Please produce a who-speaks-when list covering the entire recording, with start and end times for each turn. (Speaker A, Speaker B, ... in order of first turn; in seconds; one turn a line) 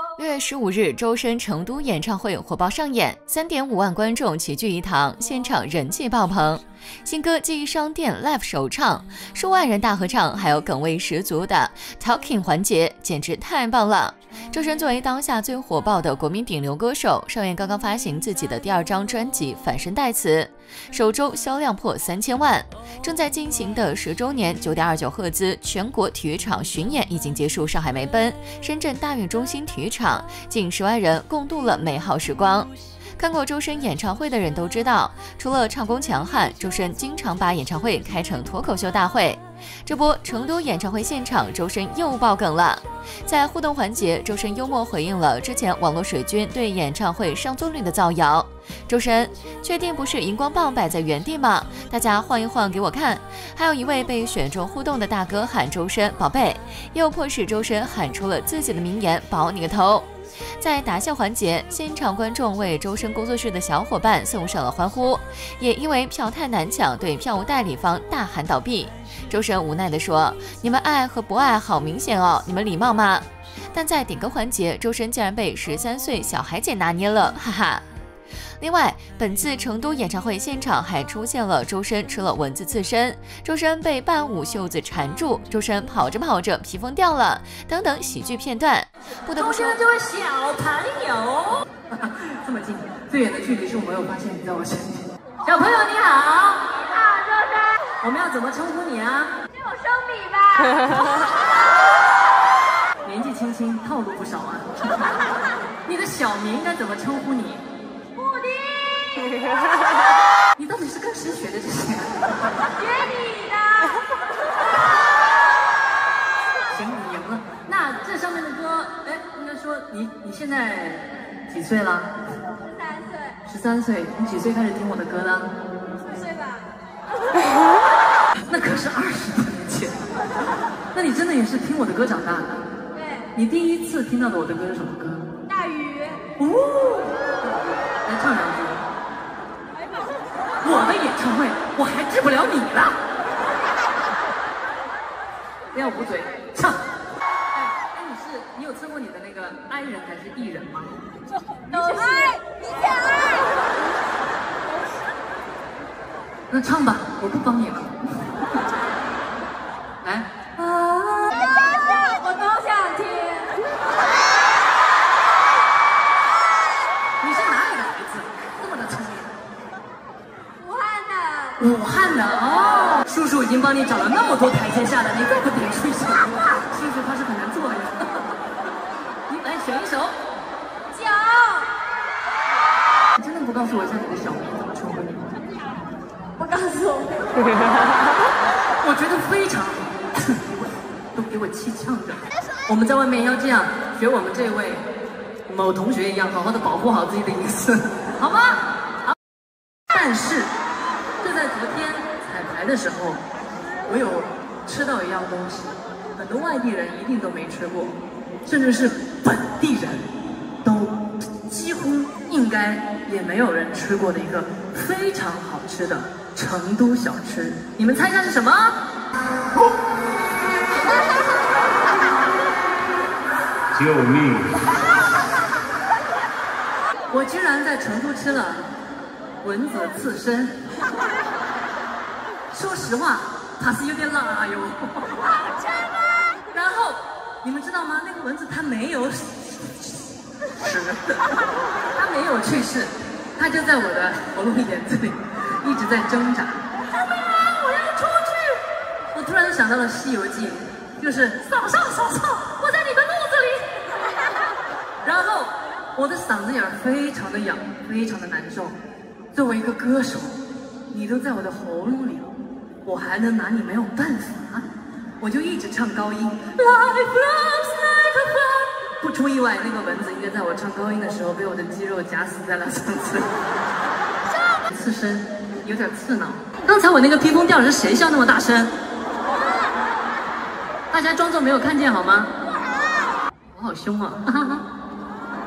Speaker A: 0.1-77.8
Speaker A: 78.6-89.8
Speaker B: 89.3-96.8
Speaker C: 97.0-97.8
Speaker B: 97.9-99.3
Speaker C: 99.6-101.1
Speaker B: 103.0-105.1
Speaker B: 105.8-107.6
Speaker C: 108.3-108.6
Speaker B: 110.5-112.5
Speaker C: 113.7-114.0
Speaker B: 116.7-122.1
Speaker B: 123.4-125.5
Speaker C: 126.2-126.5
Speaker B: 128.5-130.0
Speaker B: 130.9-132.6
Speaker B: 133.3-135.3
Speaker C: 135.6-136.2
Speaker B: 136.4-138.8
Speaker B: 140.6-143.0
Speaker B: 145.7-146.8
Speaker B: 147.5-150.9
Speaker B: 156.5-157.9
Speaker B: 160.0-161.3
Speaker C: 161.8-163.6
Speaker B: 167.2-169.3
Speaker C: 170.7-171.5
Speaker B: 171.6-178.4
Speaker B: 179.3-180.2
Speaker C: 180.9-181.6
Speaker B: 183.2-185.3
Speaker C: 186.5-187.3
Speaker B: 188.8-190.4
Speaker B: 191.1-194.8
Speaker B: 195.5-198.6
Speaker B: 199.9-200.5
Speaker B: 201.2-203.2
Speaker B: 203.9-210.1
Speaker B: 210.6-210.9
Speaker B: 211.5-218.8
Speaker B: 227.1-228.6
Speaker B: 229.4-230.6
Speaker B: 232.5-235.3
Speaker B: 236.5-239.9
Speaker B: 240.6-241.3
Speaker B: 241.9-246.6
Speaker B: 247.8-248.3
Speaker B: 249.1-253.7
Speaker B: 255.0-258.8
Speaker B: 259.3-260.4
Speaker B: 260.9-262.3
Speaker B: 262.8-264.6
Speaker B: 265.2-273.3
Speaker B: 274.7-278.7
Speaker B: 280.9-282.3
Speaker B: 283.5-284.6